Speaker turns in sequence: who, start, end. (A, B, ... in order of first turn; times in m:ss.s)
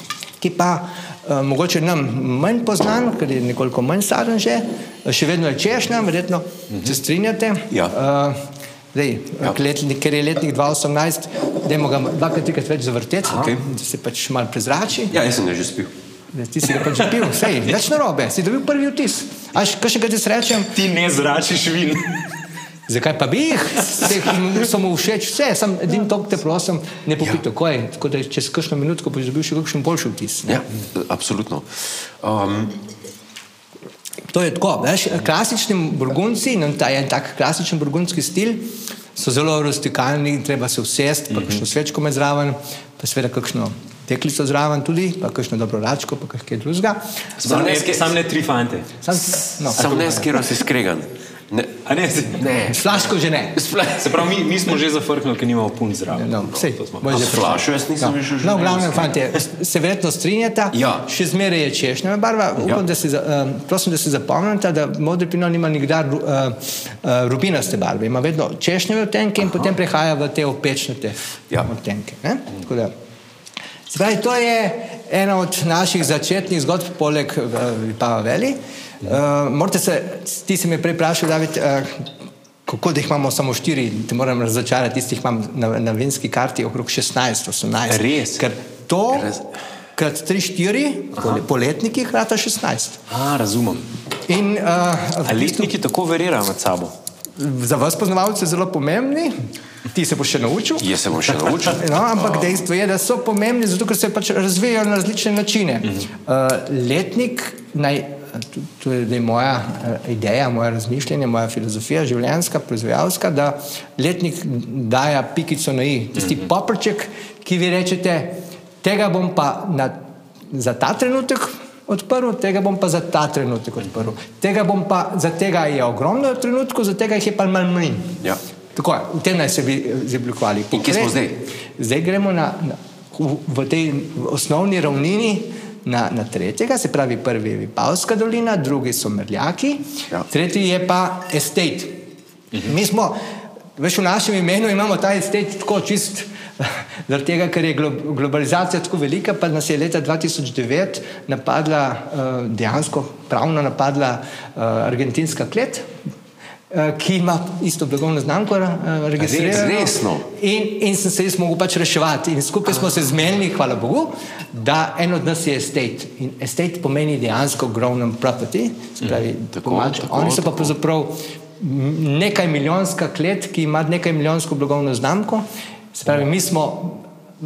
0:00.4-0:08.4 A
0:06.7-0:07.0 B
0:08.9-0:15.2 A
0:13.3-0:13.5 B
0:13.3-0:13.6 C
0:15.1-0:15.9 C
0:16.3-0:20.8 A
0:20.7-0:22.3 B
0:22.9-0:30.6 A
0:30.5-0:32.8 C
0:34.3-0:47.0 A
0:41.3-0:41.6 B
0:47.4-0:49.0 B
0:47.4-0:48.1 C
0:49.0-0:50.3 A
0:49.5-0:50.5 B
0:49.7-0:54.4 C
0:51.8-0:52.5 B
0:52.7-0:53.6 A
0:53.9-0:57.6 B
0:56.1-1:12.9 A
0:57.1-0:59.2 C
1:00.7-1:01.1 C
1:13.9-1:22.1 A
1:22.7-1:29.4 A
1:27.9-1:28.4 B
1:29.1-1:29.5 C
1:30.0-1:33.0 A
1:31.2-1:31.4 B
1:33.1-1:33.9 B
1:34.3-1:35.7 A
1:35.2-1:36.9 B
1:37.4-1:39.3 A
1:39.9-1:40.9 A
1:40.8-1:42.6 C
1:41.6-2:00.0 A
2:00.5-2:08.2 A
2:08.8-2:11.2 A
2:10.7-2:11.4 C
2:11.8-2:22.0 A
2:22.5-2:23.2 A
2:23.8-2:35.9 A
2:36.7-2:57.0 A
2:39.2-2:39.8 B
2:39.5-2:40.3 C
2:49.5-2:50.7 C